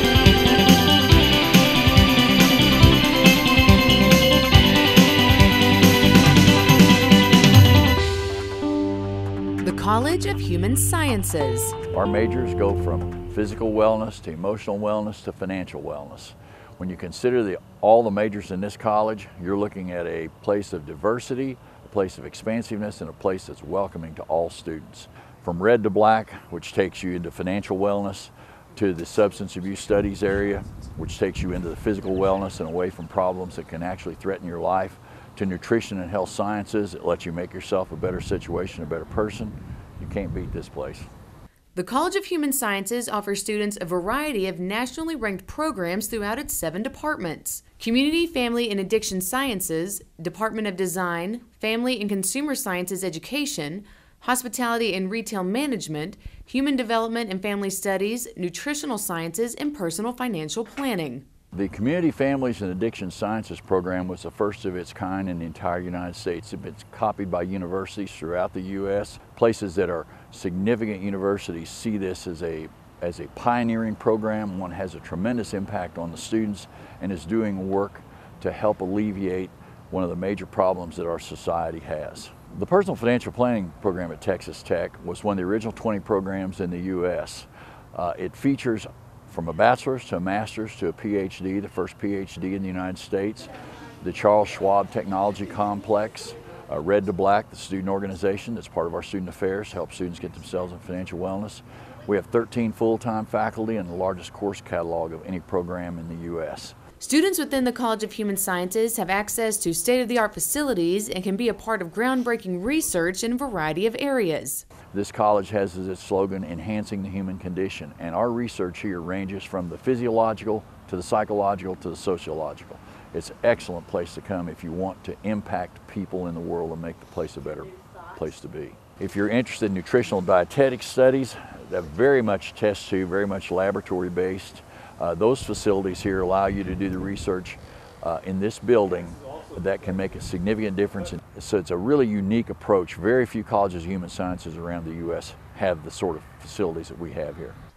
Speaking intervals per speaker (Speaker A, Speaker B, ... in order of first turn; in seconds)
Speaker A: 9.6-11.8, 41.7-61.2, 107.0-114.7
Speaker B: 11.9-41.1, 61.5-93.5, 94.0-106.8, 114.9-147.6